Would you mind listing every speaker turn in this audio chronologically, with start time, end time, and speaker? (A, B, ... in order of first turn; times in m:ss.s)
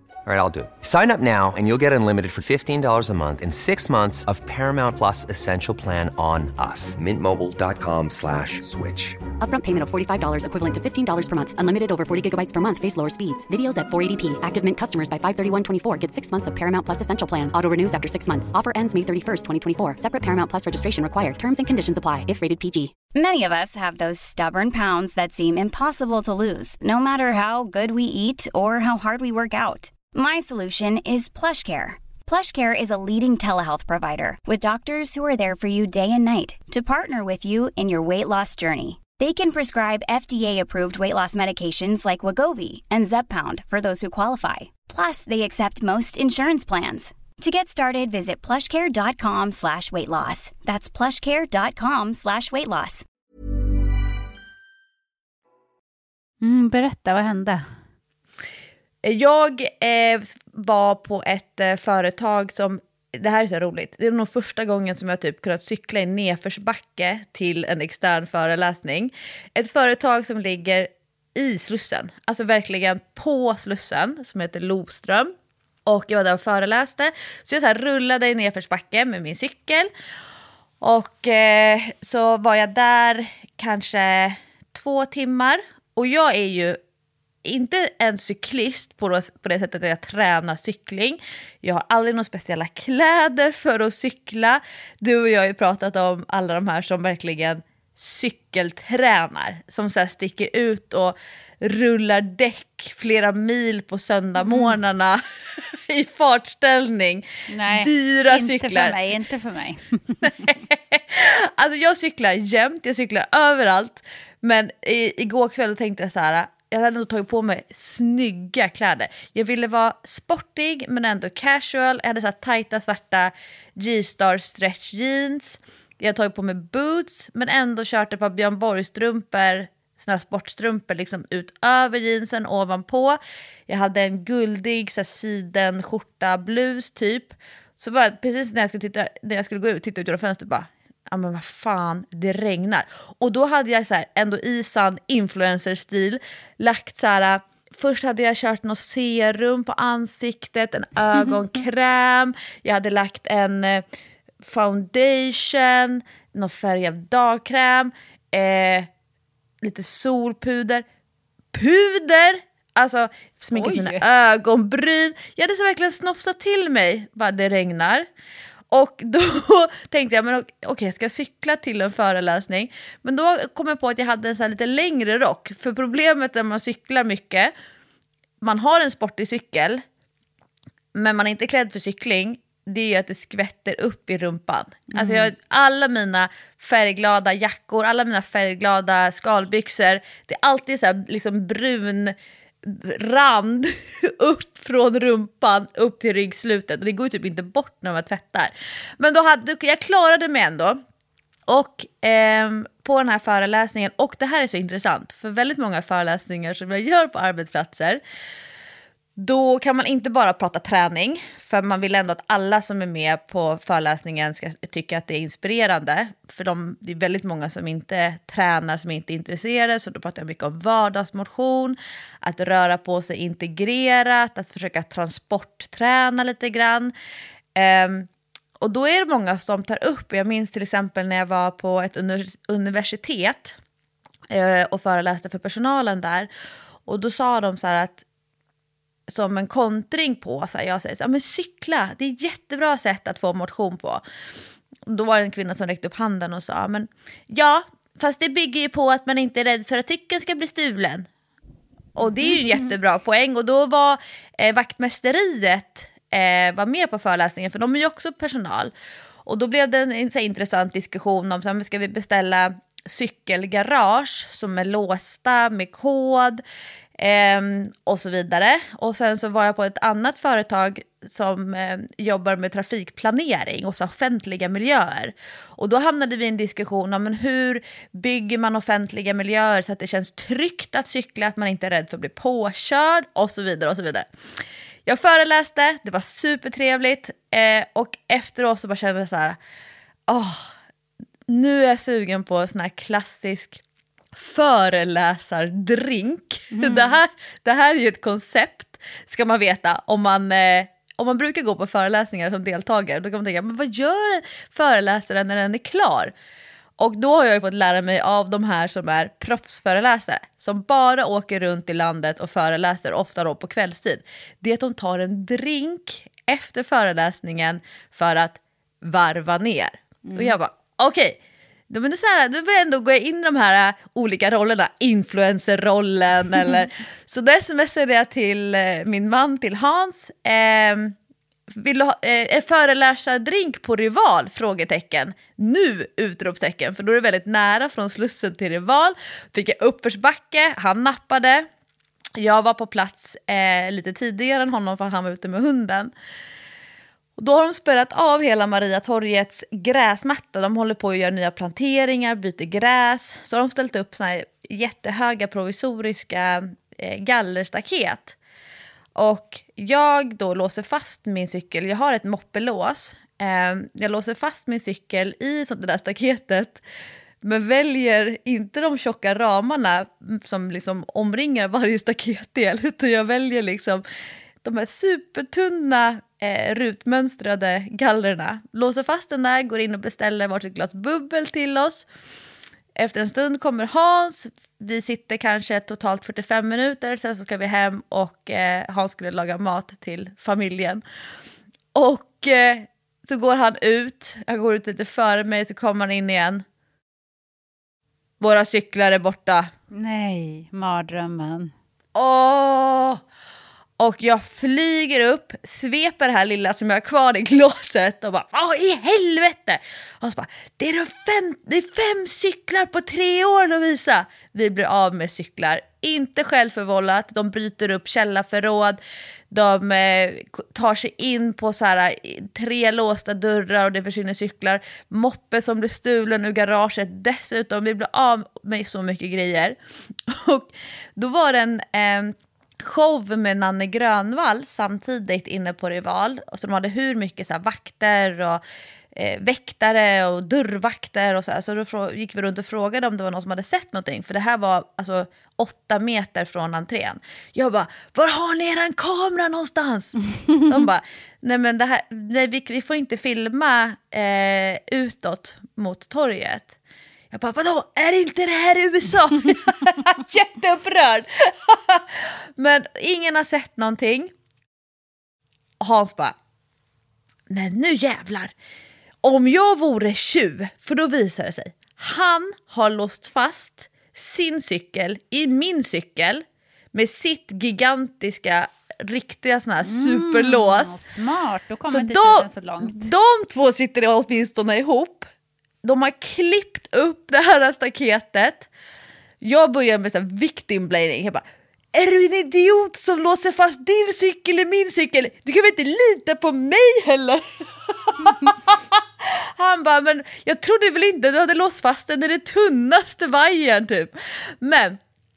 0:00.2-0:09.2 A
0:09.4-0:22.9 B
0:23.1-0:53.0 C
0:56.4-0:57.6 D
0:59.0-1:15.3 E
1:15.8-1:19.9 E
1:20.8-1:26.8 E
1:27.4-1:49.0 E
1:44.5-1:44.7 D
1:47.5-1:50.5 D
1:50.2-2:33.8 E
2:34.4-2:38.9 E
2:39.6-2:40.8 E
2:41.5-2:48.1 E
2:43.5-2:44.0 D
2:48.7-2:57.5 E
2:58.4-2:59.8 E
3:00.9-3:20.8 E
3:04.9-3:05.3 D
3:21.5-3:28.0 E
3:29.2-3:46.9 E
3:47.6-3:48.1 E
3:48.6-3:53.6 E
3:54.3-3:56.3 E
3:56.8-3:58.0 E
3:59.1-4:04.0 E
4:04.8-4:11.1 E
4:12.0-4:18.7 E
4:19.2-4:26.4 E
4:27.0-4:44.1 E
4:44.8-4:49.4 E
4:50.1-4:50.5 E
4:51.3-4:53.6 E
4:54.1-5:06.1 E
4:56.5-4:57.0 D
5:06.8-5:31.0 E
5:20.1-5:20.4 D
5:31.5-5:41.5 E
5:42.2-5:45.9 E
5:47.2-5:58.2 E
5:59.0-6:06.6 E
6:07.2-6:13.8 E
6:14.4-6:21.8 E
6:22.7-6:30.8 E
6:31.7-6:36.4 E
6:38.2-6:39.5 E
6:39.7-6:41.5 D
6:41.9-6:43.0 E
6:43.8-6:58.8 E
6:59.3-7:18.4 E
7:18.9-7:36.5 E
7:37.1-7:44.1 E
7:45.6-7:46.2 E
7:47.3-7:48.3 E
7:49.0-8:00.8 E
7:59.6-8:02.9 D
8:01.7-8:05.1 E
8:05.6-8:08.5 E
8:09.2-8:24.8 E